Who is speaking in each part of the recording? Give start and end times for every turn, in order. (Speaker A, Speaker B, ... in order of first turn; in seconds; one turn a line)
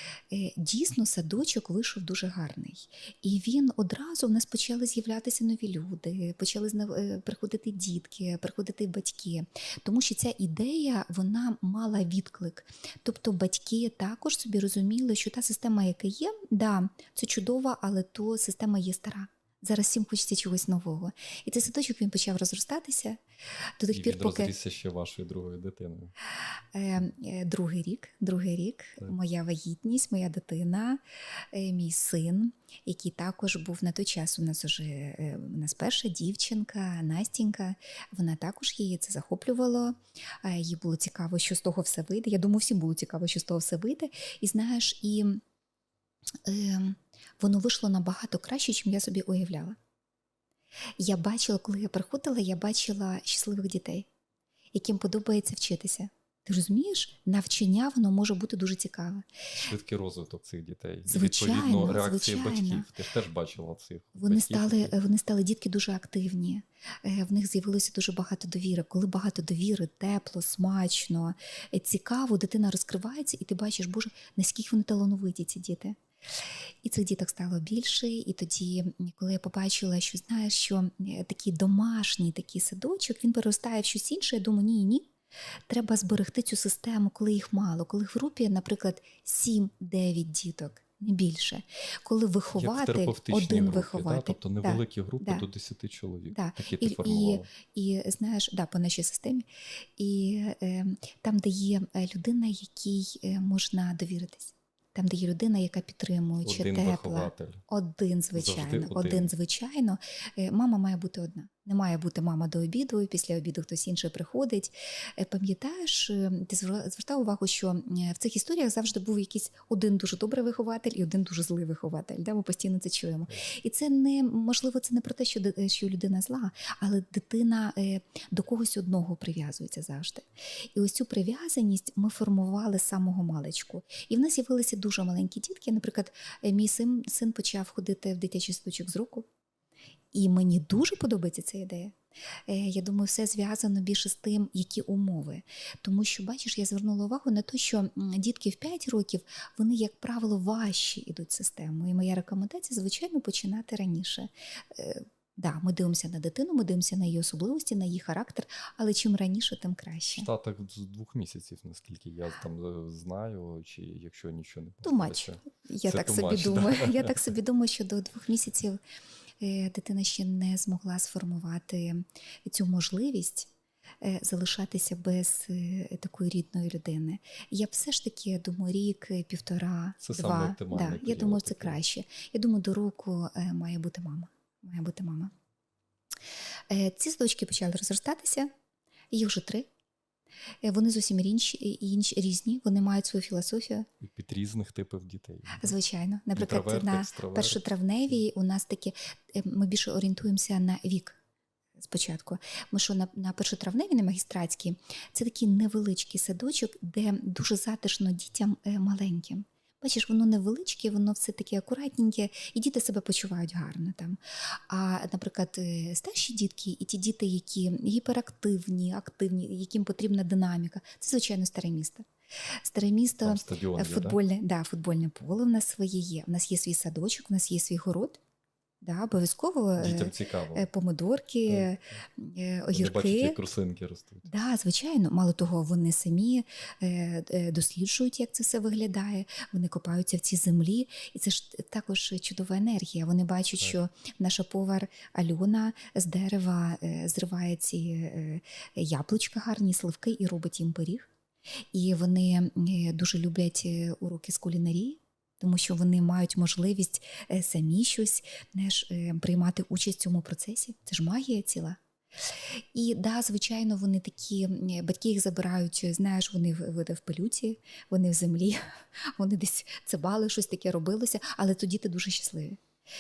Speaker A: 0.3-23.2
Speaker A: 23.8-24.5
Speaker B: 23.9-26.1
Speaker A: 26.7-31.0
Speaker A: 31.5-45.4
Speaker A: 46.4-49.8
Speaker A: 51.0-54.1
Speaker A: 54.7-59.5
Speaker B: 59.5-65.0
Speaker A: 61.1-62.9
Speaker A: 64.2-76.0
Speaker A: 76.8-85.1
Speaker A: 85.7-95.5
Speaker B: 92.5-97.5
Speaker A: 96.3-99.5
Speaker A: 100.0-139.3
Speaker B: 106.4-107.6
Speaker B: 108.3-109.3
Speaker A: 140.1-142.0
Speaker A: 142.5-160.3
Speaker B: 160.1-167.3
Speaker A: 164.8-168.8
Speaker A: 169.4-173.5
Speaker A: 174.0-185.3
Speaker B: 180.0-181.8
Speaker A: 186.7-188.5
Speaker A: 189.1-189.7
Speaker A: 190.6-193.9
Speaker B: 194.0-195.8
Speaker A: 195.6-201.2
Speaker B: 196.3-197.7
Speaker A: 201.8-228.2
Speaker B: 223.2-224.2
Speaker A: 228.8-233.4
Speaker B: 229.8-230.7
Speaker B: 231.5-232.0
Speaker B: 232.7-234.3
Speaker A: 234.3-251.1
Speaker A: 251.7-272.6